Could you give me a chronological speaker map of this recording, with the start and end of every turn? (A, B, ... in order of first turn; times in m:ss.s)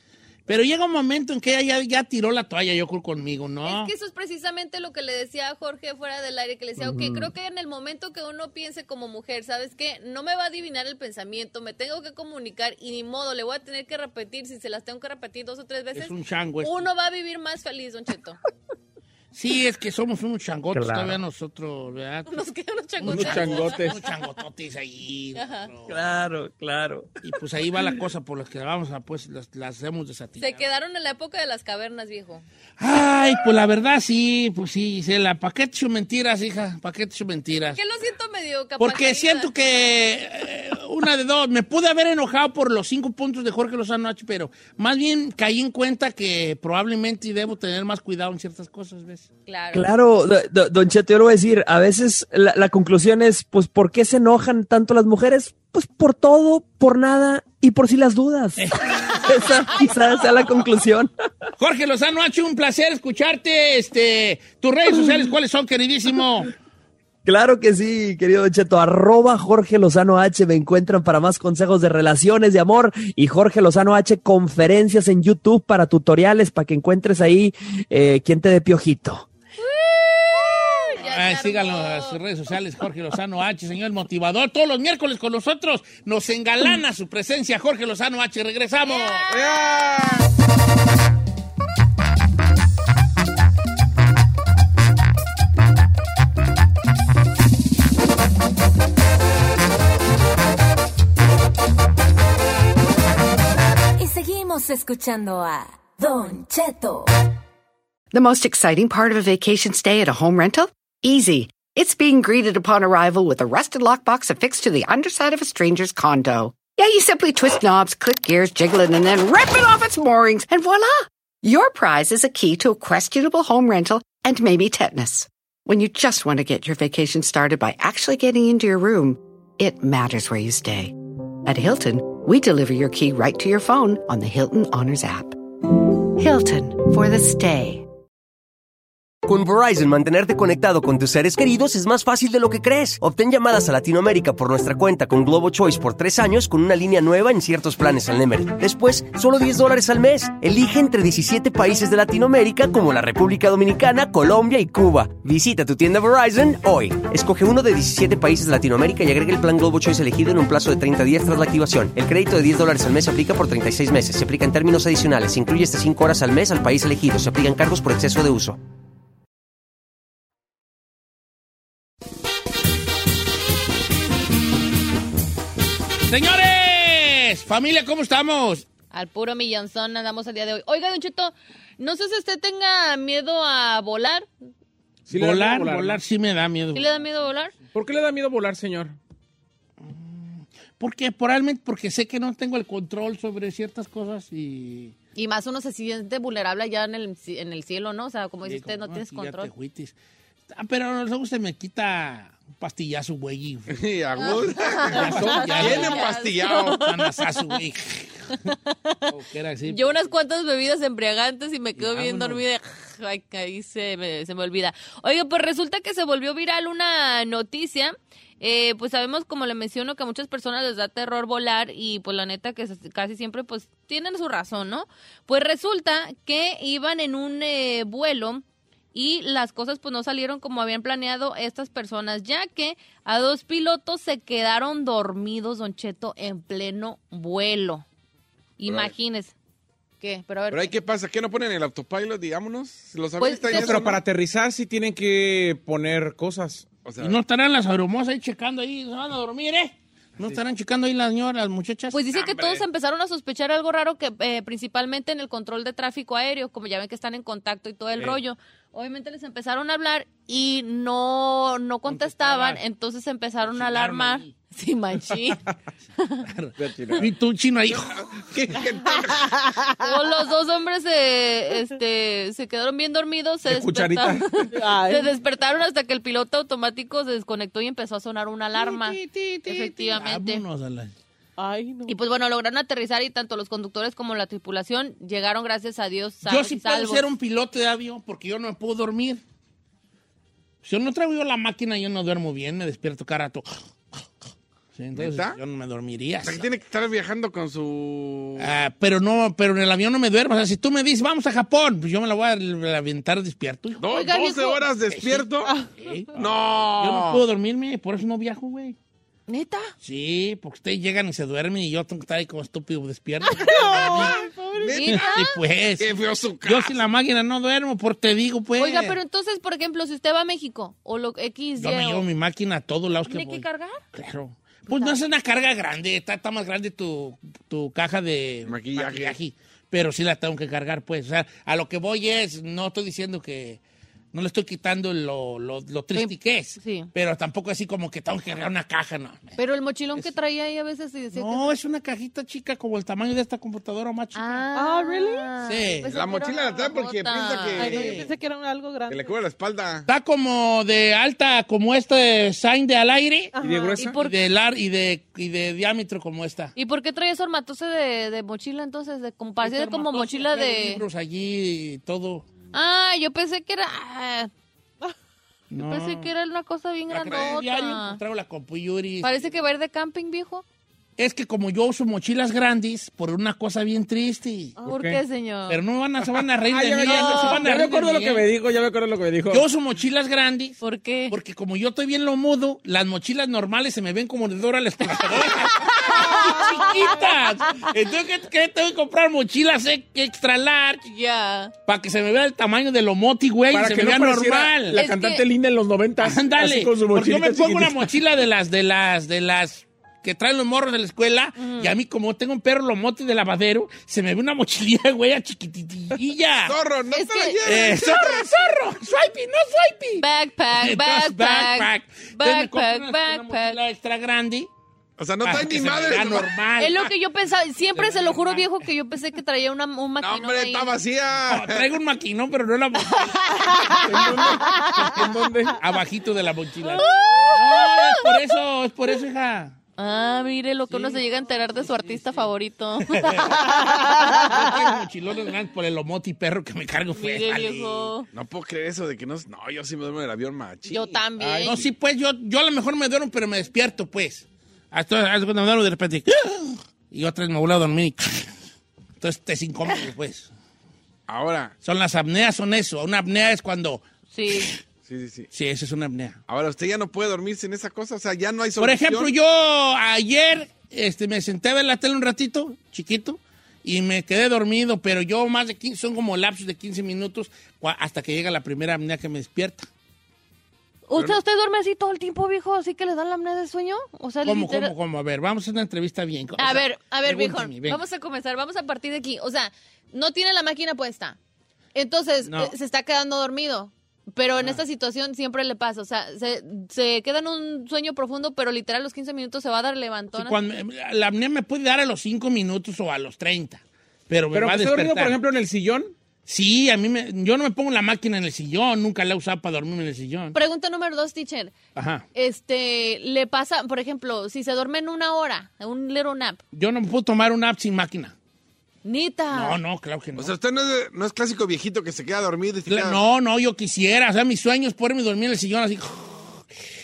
0:00.5-0:03.9 A
0:03.6-0:18.4 B
0:06.8-0:07.3 C
0:15.9-0:16.8 A
0:19.3-0:22.4 A
0:20.7-0:21.2 C
0:22.3-0:24.4 B
0:23.0-0:26.0 A
0:23.0-0:24.0 D
0:25.4-0:25.7 B
0:25.9-0:27.1 C
0:27.2-0:30.6 A
0:27.8-0:28.0 C
0:30.4-0:32.4 B
0:32.8-0:37.8 A
0:37.7-0:39.5 B
0:38.8-0:49.3 A
0:49.5-0:49.9 B
0:49.7-1:01.1 C
0:58.6-0:59.7 A
0:59.7-1:00.2 B
1:01.6-1:06.5 A
1:04.9-1:05.3 C
1:07.2-1:19.3 C
1:19.6-1:22.2 B
1:21.0-1:29.3 A
1:28.8-1:29.8 B
1:29.3-1:30.2 D
1:44.0-1:47.1 E
1:48.1-2:15.4 F
2:16.2-2:17.9 F
2:19.3-2:48.6 G
2:56.1-2:58.7 A
2:58.9-3:04.3 B
3:05.1-3:06.0 D
3:05.1-3:06.9 A
3:06.7-3:07.6 B
3:07.7-3:09.0 D
3:09.8-3:15.0 A
3:15.1-3:19.5 B
3:18.4-3:20.0 A
3:20.5-3:23.8 A
3:23.7-3:26.8 H
3:24.2-3:27.0 B
3:24.9-3:28.4 A
3:28.4-3:29.0 B
3:29.1-3:30.0 A
3:29.7-3:57.9 B
3:31.8-3:32.4 A
3:58.6-3:59.3 B
3:58.7-3:58.9 H
4:00.0-4:00.7 B
4:00.5-4:04.0 H
4:03.2-4:04.0 B
4:03.5-4:06.7 D
4:06.8-4:07.2 H
4:07.0-4:12.0 A
4:11.9-4:25.4 B
4:12.1-4:12.7 H
4:21.9-4:22.6 A
4:23.4-4:24.4 A
4:26.0-4:26.3 B
4:26.2-4:27.9 A
4:26.6-4:27.1 H
4:27.7-4:29.4 H
4:28.8-4:30.1 I
4:29.8-4:40.4 B
4:33.4-4:34.3 D
4:34.5-4:35.1 I
4:38.6-4:40.9 A
4:41.4-4:42.0 I
4:41.9-4:47.0 B
4:46.2-4:49.2 A
4:50.6-4:53.6 A
4:54.8-4:56.5 A
4:55.0-4:55.4 H
4:56.2-4:58.5 H
4:58.4-5:03.8 A
5:03.8-5:05.5 H
5:03.9-5:04.6 B
5:04.9-5:05.3 A
5:05.4-5:05.7 I
5:05.8-5:08.8 A
5:06.1-5:07.2 H
5:09.3-5:09.7 B
5:09.8-5:14.2 A
5:13.2-5:14.8 I
5:13.8-5:14.0 B
5:13.9-5:15.1 H
5:14.7-5:15.4 B
5:14.9-5:19.0 A
5:15.8-5:16.8 H
5:18.6-5:22.0 B
5:21.6-5:33.6 A
5:23.1-5:23.8 B
5:24.7-5:25.0 B
5:28.5-5:29.2 H
5:34.1-5:39.4 A
5:35.9-5:36.9 B
5:39.4-5:41.5 B
5:41.1-5:44.4 A
5:44.1-5:48.0 B
5:44.6-5:45.3 I
5:45.4-5:45.9 A
5:45.9-5:48.1 H
5:47.6-5:49.1 I
5:47.6-5:48.1 A
5:48.9-5:49.9 H
5:49.9-5:56.5 A
5:53.4-5:53.8 I
5:53.4-5:53.9 D
5:53.5-5:53.9 H
5:53.7-5:54.2 B
5:56.6-6:00.8 B
5:59.4-6:02.3 A
6:02.5-6:04.3 B
6:05.5-6:06.1 A
6:05.6-6:08.0 B
6:06.9-6:09.2 A
6:09.0-6:10.4 B
6:11.0-6:14.6 A
6:14.6-6:15.0 D
6:14.7-6:15.6 B
6:15.5-6:18.3 A
6:16.4-6:19.4 D
6:16.8-6:17.5 B
6:19.3-6:30.9 A
6:20.6-6:21.1 B
6:25.1-6:26.8 B
6:25.8-6:27.1 I
6:30.8-6:31.5 B
6:31.6-6:34.8 A
6:33.5-6:37.9 D
6:34.8-6:35.2 B
6:36.0-6:46.6 A
6:41.4-6:41.7 B
6:46.4-6:48.3 H
6:46.9-6:47.6 B
6:47.4-6:54.5 A
6:50.0-6:53.6 B
6:55.0-6:56.3 H
6:55.2-6:56.9 A
6:56.6-7:00.8 B
6:57.7-6:58.5 A
7:00.0-7:01.7 H
7:01.3-7:03.2 A
7:02.9-7:04.9 B
7:03.9-7:05.6 D
7:04.4-7:04.9 I
7:05.6-7:09.6 A
7:06.7-7:08.2 B
7:09.8-7:14.4 B
7:10.7-7:11.0 D
7:12.9-7:13.4 A
7:13.3-7:14.7 I
7:14.3-7:17.9 A
7:16.9-7:18.1 B
7:18.1-7:21.6 H
7:20.7-7:21.6 B
7:21.2-7:21.5 D
7:21.4-7:28.3 A
7:29.0-7:30.3 A
7:31.1-7:31.5 H
7:31.6-7:34.6 A
7:34.1-7:34.5 B
7:34.9-7:35.3 H
7:35.3-7:36.2 A
7:36.3-7:39.1 H
7:38.6-7:49.7 A
7:50.9-7:54.7 B
7:54.2-7:57.8 A
7:56.4-8:01.2 B
8:01.7-8:10.4 B
8:02.2-8:02.5 A
8:10.1-8:15.2 A
8:14.3-8:15.9 D
8:16.3-8:20.4 A
8:20.3-8:21.6 B
8:21.7-8:22.0 A
8:22.1-8:26.4 B
8:26.5-8:28.1 A
8:28.8-8:29.6 B
8:29.3-8:30.4 A
8:30.2-8:33.0 H
8:32.7-8:36.4 A